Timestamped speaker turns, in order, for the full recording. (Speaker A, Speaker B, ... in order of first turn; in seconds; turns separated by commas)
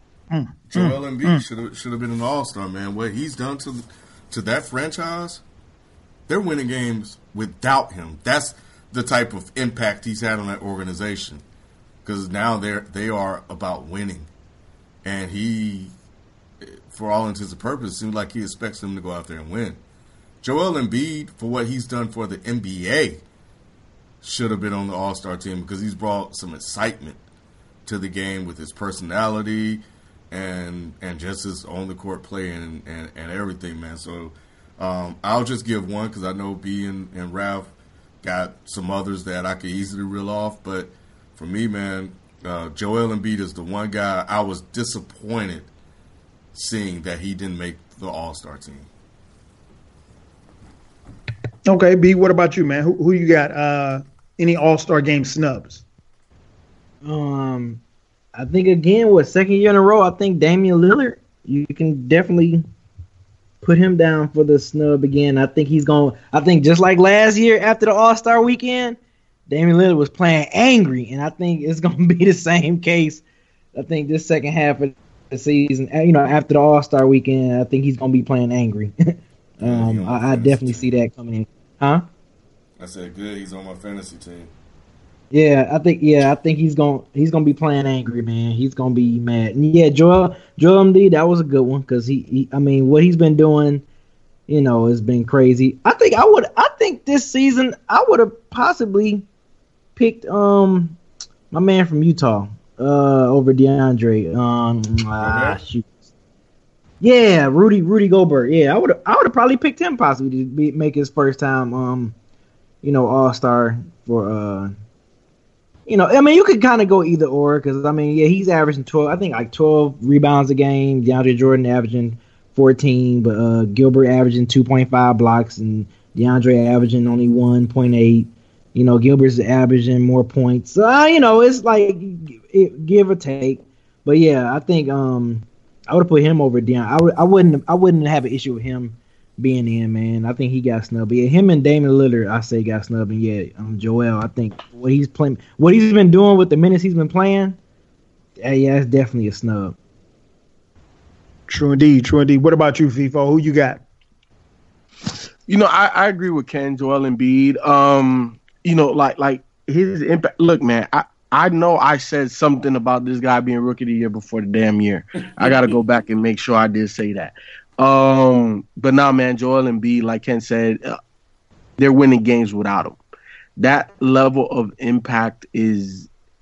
Speaker A: 0.3-1.4, Speaker B: 0.7-5.4, Speaker B: 6.3-11.4, Speaker B: 12.1-14.3, Speaker B: 15.0-15.9, Speaker B: 16.6-19.8, Speaker B: 20.4-23.2, Speaker B: 24.2-27.2, Speaker B: 27.9-45.7, Speaker B: 46.5-48.9, Speaker A: 51.6-55.8, Speaker C: 57.0-57.8, Speaker C: 58.4-62.6, Speaker C: 63.6-69.0, Speaker C: 69.5-73.2, Speaker C: 73.8-82.0, Speaker B: 79.6-80.9, Speaker B: 82.8-84.5, Speaker C: 85.3-93.8, Speaker C: 94.5-99.2, Speaker C: 100.0-101.0, Speaker C: 101.5-106.0, Speaker B: 105.2-105.6, Speaker C: 107.0-112.1, Speaker C: 112.8-114.7, Speaker C: 115.9-147.6, Speaker C: 148.4-149.8, Speaker A: 151.5-153.8, Speaker D: 155.5-171.0, Speaker B: 165.4-165.8, Speaker D: 171.8-173.0, Speaker D: 173.6-176.1